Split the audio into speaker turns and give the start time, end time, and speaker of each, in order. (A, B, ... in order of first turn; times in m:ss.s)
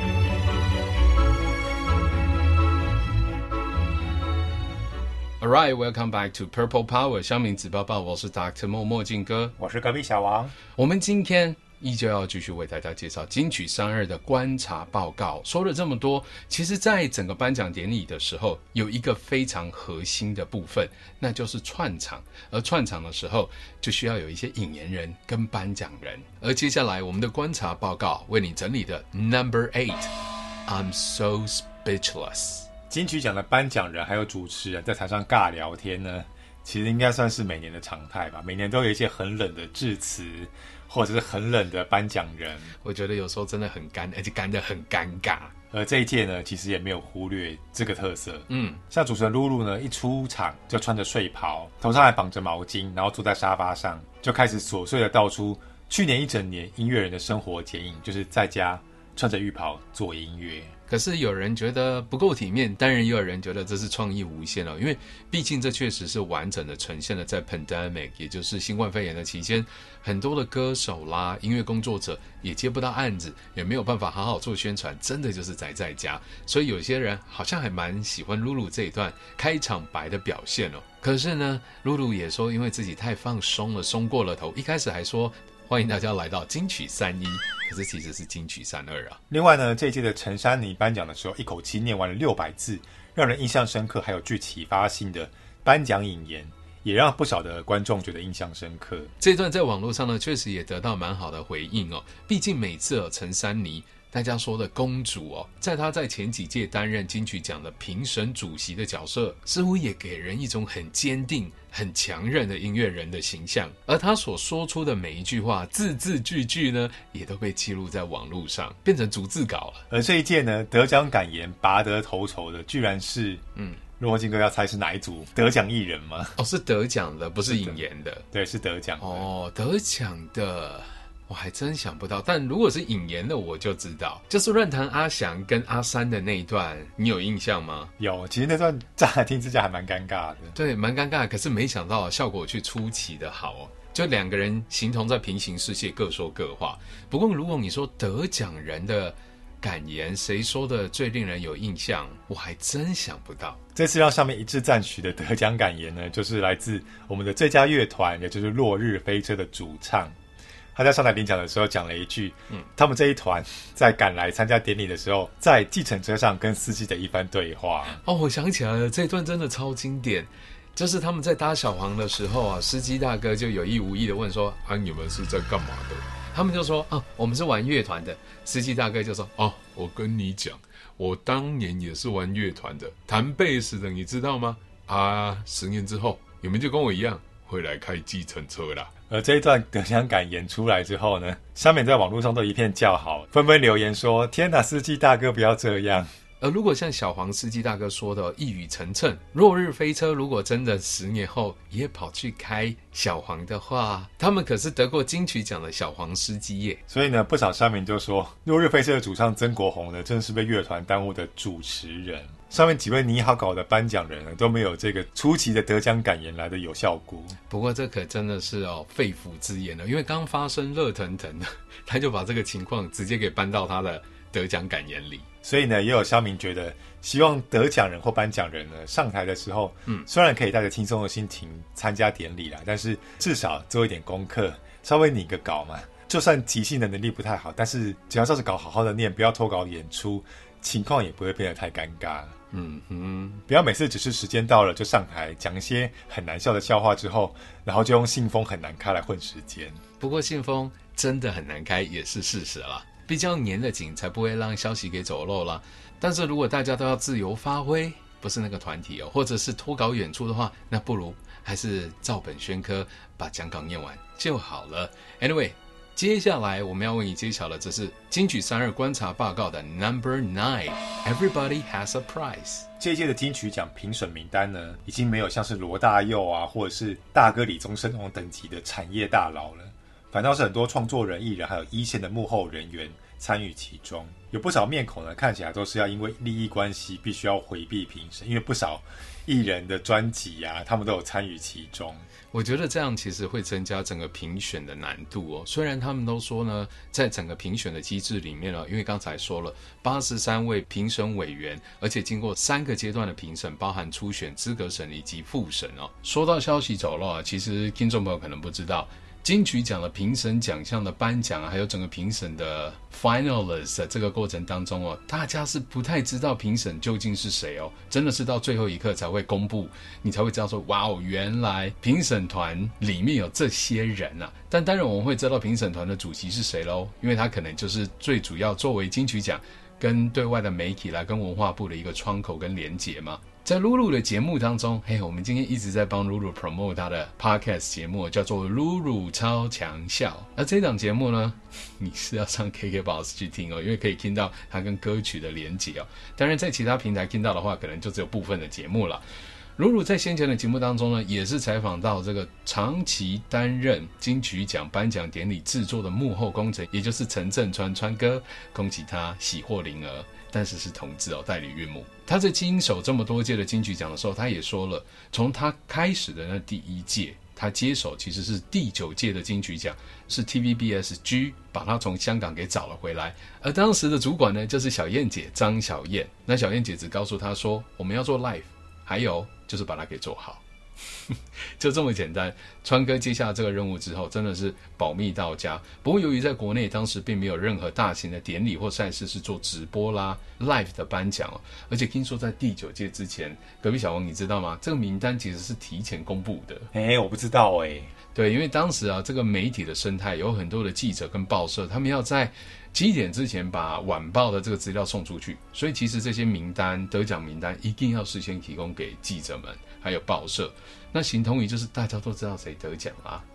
0:05.4-0:09.5 A
0:09.6-0:10.5 B
0:10.8-0:30.1 A
0:30.7-0:32.7 A
0:32.9-0:42.7 B
0:42.8-0:45.5 A
0:45.7-1:00.7 B
0:48.5-0:48.8 A
1:00.9-1:29.2 A
1:29.3-1:39.1 B
1:39.2-1:59.8 A
1:59.9-2:03.4 B
2:04.0-2:06.3 B
2:06.4-2:08.2 A
2:07.5-2:09.3 B
2:09.0-2:17.9 A
2:18.0-2:20.6 B
2:20.5-2:33.6 A
2:33.7-2:40.2 B
2:40.7-2:48.0 B
2:48.0-3:08.9 A
3:09.1-3:16.1 B
3:16.4-3:26.8 A
3:26.9-3:37.4 B
3:37.5-3:45.2 A
3:45.4-4:02.4 B
4:02.5-4:03.4 A
4:03.5-4:09.8 B
4:10.0-4:32.7 A
4:32.8-4:52.1 B
4:52.3-5:49.0 A
5:49.6-6:20.4 A
6:21.6-6:36.7 A
6:36.7-6:37.9 B
6:38.1-6:53.2 A